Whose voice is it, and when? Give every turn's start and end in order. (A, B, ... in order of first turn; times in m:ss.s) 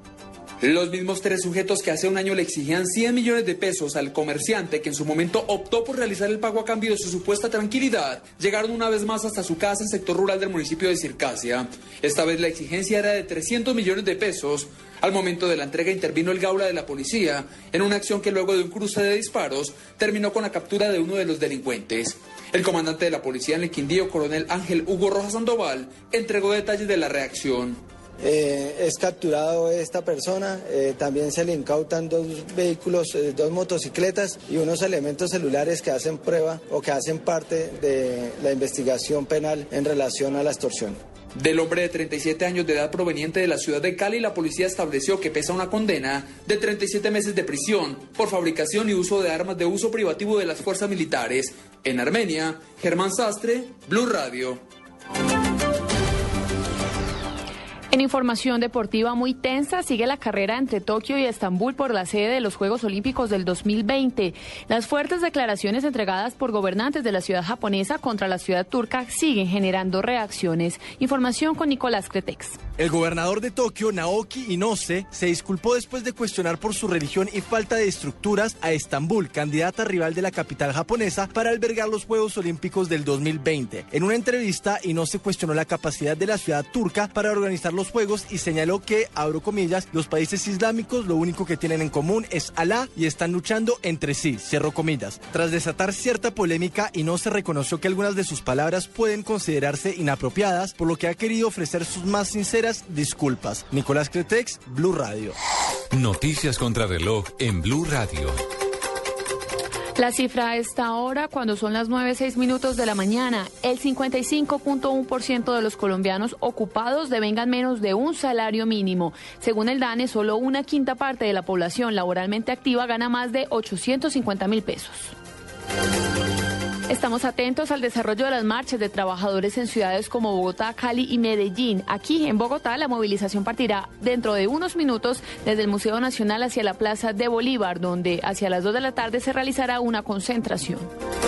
0:00.6-0:27.8 A
0:28.2-0:41.0 B
0:41.4-0:54.6 A
0:57.9-1:12.6 C
1:12.8-1:45.3 D
1:45.9-1:48.4 E
1:50.0-2:05.1 C
2:06.9-2:20.9 C